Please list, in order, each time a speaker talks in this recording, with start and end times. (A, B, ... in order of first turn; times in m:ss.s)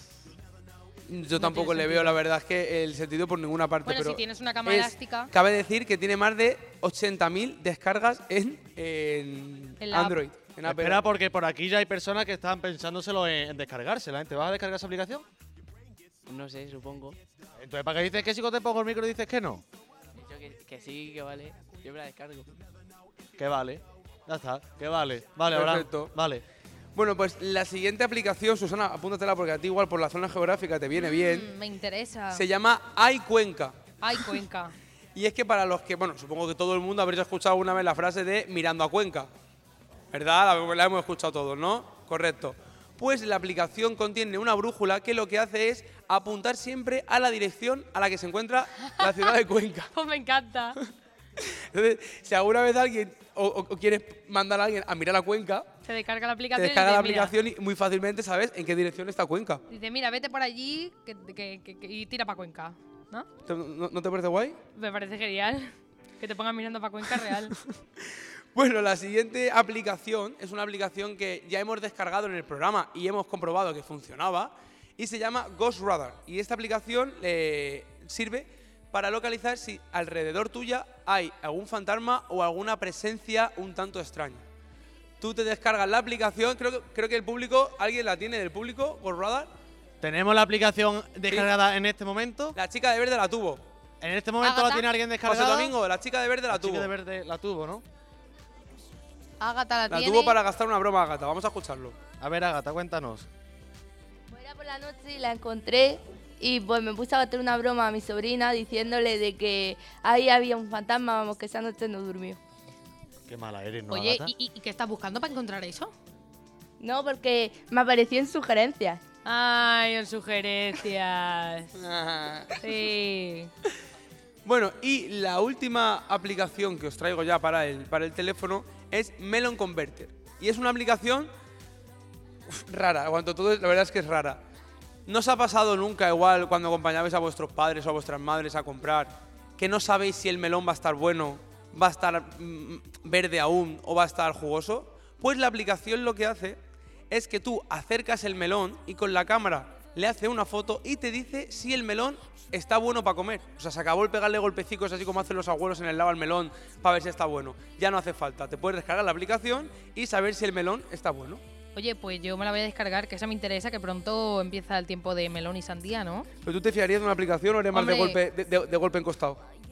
0:01.1-0:11.0 A
0:01.4-0:02.2 B
0:03.8-0:05.3 B
0:09.8-0:10.2 B
0:10.6-0:15.2 C
0:16.3-0:17.2 D
0:17.6-0:19.6 C
0:20.2-0:22.5 D
0:23.4-0:26.4 C
0:25.5-0:26.1 A
0:26.9-0:31.5 A
0:31.0-0:32.4 B
0:32.3-0:33.8 A
0:34.0-0:34.8 B
0:35.1-0:39.3 A
0:40.1-0:49.9 A
0:48.9-0:49.3 B
0:49.9-0:50.8 B
0:51.4-0:55.7 A
0:55.8-0:57.3 B
0:56.6-0:59.6 A
0:59.7-1:03.3 B
1:03.4-1:04.6 A
1:04.8-1:07.6 B
1:08.6-1:24.4 A
1:25.2-1:29.5 A
1:30.0-1:32.6 C
1:32.6-1:33.6 A
1:34.0-1:35.8 C
1:34.4-1:34.8 B
1:35.2-1:36.9 A
1:36.5-1:37.8 C
1:39.4-1:40.4 B
1:39.9-1:42.0 A
1:42.2-1:43.3 C
1:44.3-1:52.4 E
1:53.3-1:54.3 C
1:53.9-1:55.9 B
1:56.8-1:59.0 E
1:59.2-2:01.7 B
2:01.8-2:02.6 A
2:02.6-2:03.5 B
2:04.4-2:11.3 A
2:12.5-2:14.4 A
2:15.1-2:26.6 A
2:27.1-2:41.4 A
2:41.7-2:46.3 B
2:46.4-2:49.4 A
2:47.7-2:48.2 B